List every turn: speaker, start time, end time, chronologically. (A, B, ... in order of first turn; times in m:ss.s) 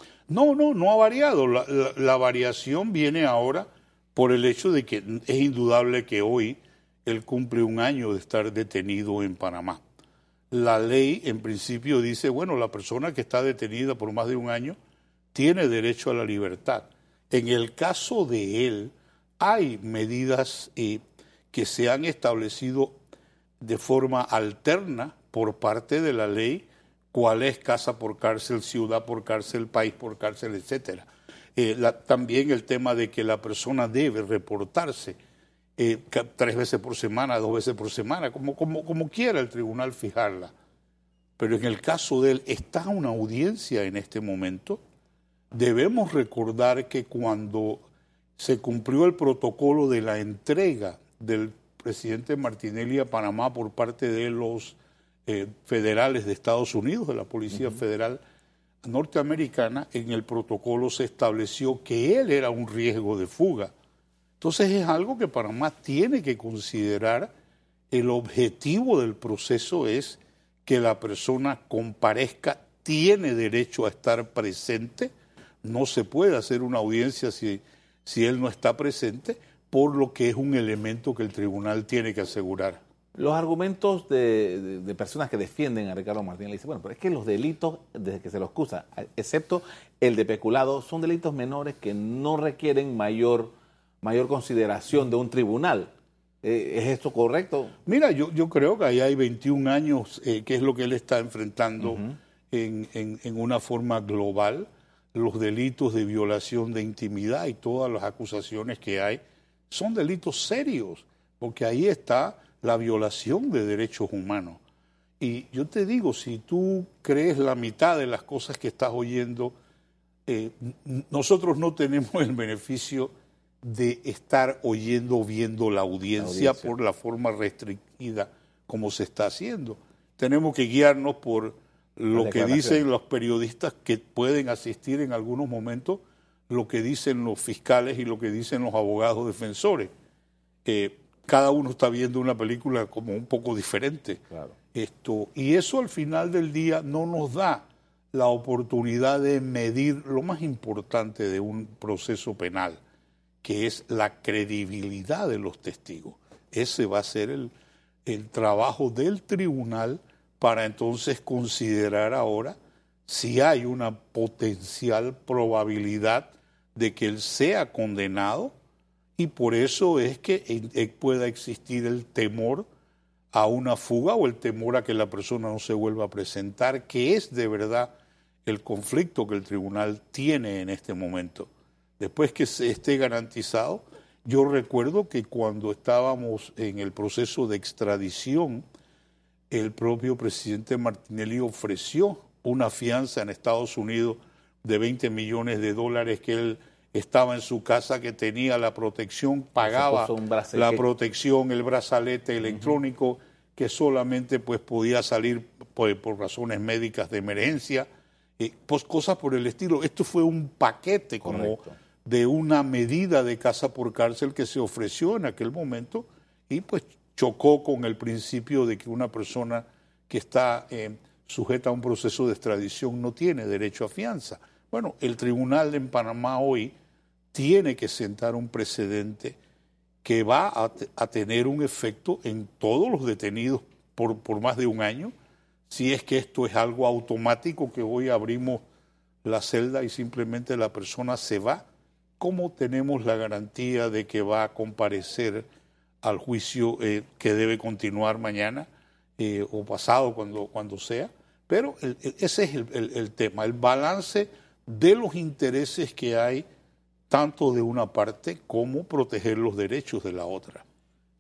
0:00.3-0:09.8 A
0:10.5-0:14.8 A
0:15.3-0:21.0 A
0:21.5-0:23.0 A
0:23.6-0:35.2 A
0:35.8-0:40.5 A
0:41.4-0:44.8 A
0:45.5-0:47.8 A
0:48.4-0:58.2 A
0:58.8-1:03.7 A
1:04.4-1:07.3 A
1:07.9-1:15.1 A
1:15.6-1:22.8 A
1:23.2-1:35.9 B
1:36.4-1:37.7 B
1:37.9-1:54.6 A
1:41.8-1:42.2 B
1:55.2-1:59.5 A
2:00.3-2:19.9 A
2:06.2-2:06.7 B
2:12.1-2:12.8 B
2:20.6-2:24.2 A
2:24.7-2:32.8 A
2:33.4-2:37.5 A
2:38.1-2:42.6 A
2:43.1-2:48.5 A
2:49.2-2:52.6 A
2:53.3-2:57.9 A
2:58.5-3:08.6 A
3:09.5-3:27.9 A
3:19.6-3:20.8 B
3:22.5-3:22.7 B
3:28.4-3:46.7 A
3:31.2-3:31.8 B
3:47.3-3:49.4 A
3:50.0-3:55.1 A
3:55.7-3:58.6 A
3:59.2-4:01.6 A
4:02.2-4:05.5 A
4:06.0-4:08.7 A
4:09.2-4:16.4 A
4:17.1-4:20.6 A